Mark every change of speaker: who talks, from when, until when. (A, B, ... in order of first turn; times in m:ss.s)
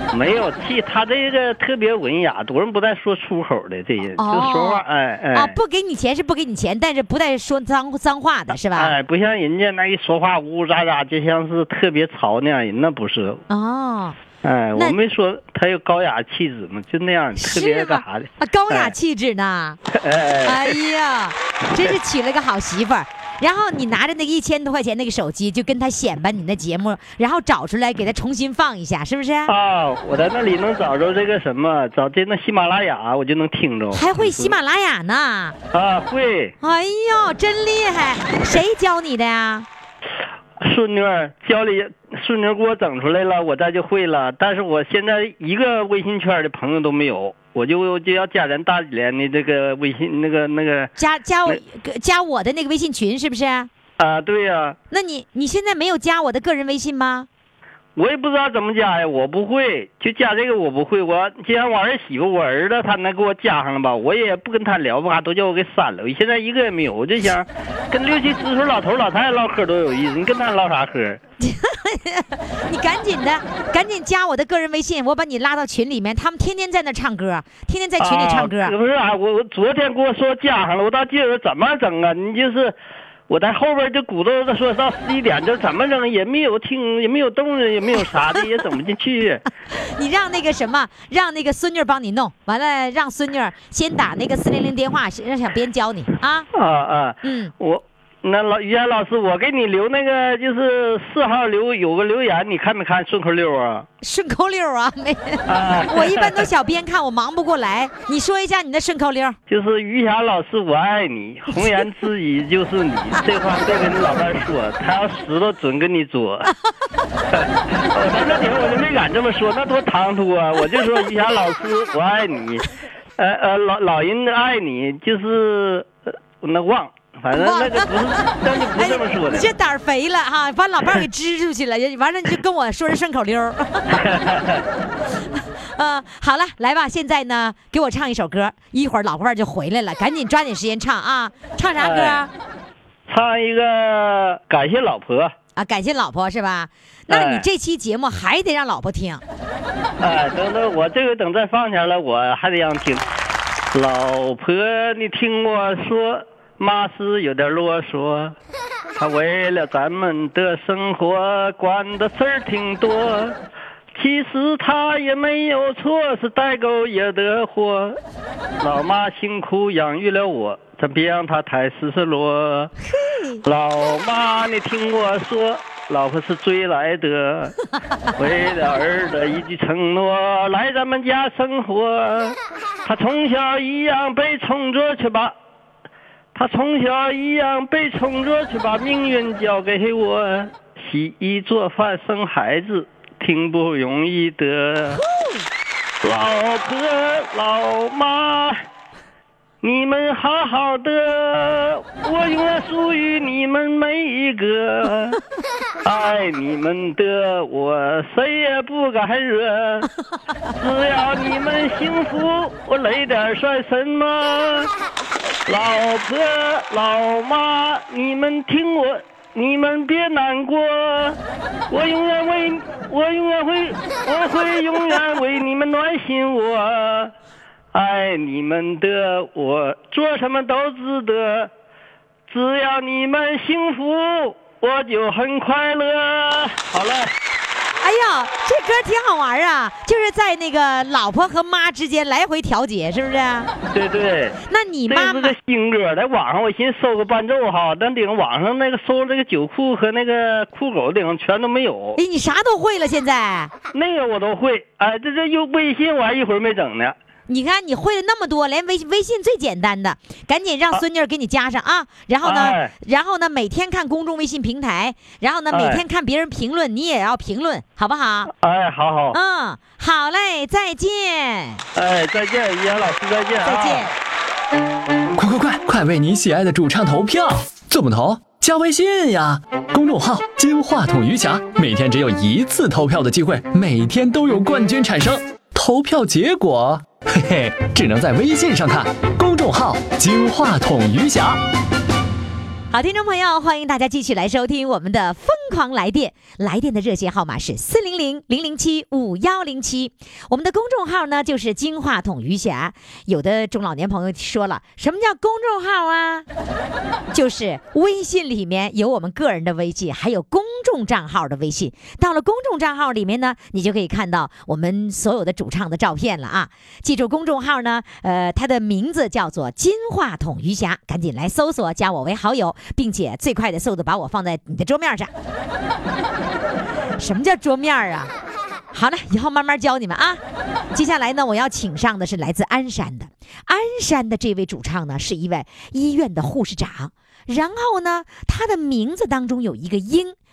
0:00.1-0:05.6 A
0:04.2-0:09.0 B
0:08.7-0:13.4 A
0:13.5-0:14.2 B
0:14.4-0:18.9 A
0:17.4-0:19.8 B
0:19.9-0:20.8 A
0:20.4-0:29.5 B
0:29.5-0:34.6 A
0:33.9-0:35.6 B
0:35.7-0:36.6 A
0:36.6-0:39.7 B
0:40.6-0:50.9 A
0:51.0-0:53.7 B
0:54.0-0:54.8 A
0:54.9-0:57.3 B
0:58.0-1:11.2 A
1:11.4-1:18.7 B
1:18.0-1:22.8 A
1:23.3-1:29.4 A
1:29.8-1:36.5 B
1:36.5-1:43.9 A
1:37.2-1:37.5 B
1:44.0-1:49.4 B
1:45.5-1:46.4 A
1:49.5-1:56.5 A
1:57.3-2:02.6 A
2:03.2-2:09.5 A
2:07.3-2:14.0 B
2:13.9-2:14.6 A
2:15.3-2:22.3 B
2:21.8-2:22.3 A
2:23.1-2:25.3 A
2:25.6-2:29.2 B
2:27.1-2:27.5 A
2:30.0-2:33.1 A
2:33.7-2:38.4 A
2:39.0-2:43.4 A
2:43.9-2:48.0 A
2:48.6-2:52.7 A
2:52.9-2:53.4 B
2:53.4-2:57.6 A
2:58.2-3:05.4 A
3:06.3-3:15.0 A
3:16.0-3:18.6 A
3:19.6-3:25.2 A
3:25.8-3:29.9 A
3:30.5-3:34.7 A
3:35.5-3:41.2 A
3:41.7-3:47.1 A
3:47.7-3:51.5 A
3:52.3-3:57.1 A
3:57.8-4:03.5 B
4:03.7-4:12.0 A
4:04.5-4:05.4 B
4:12.0-4:13.5 B
4:13.7-4:17.0 A
4:17.3-4:28.3 B
4:22.2-4:22.7 A
4:25.5-4:25.8 A
4:28.3-4:29.2 A
4:29.1-4:31.6 B
4:31.8-4:33.9 A
4:33.4-4:33.9 B
4:35.2-4:51.4 C
4:52.7-5:06.3 B
5:07.1-5:25.1 B
5:27.0-5:28.1 B
5:28.7-5:30.2 B
5:30.7-5:40.2 B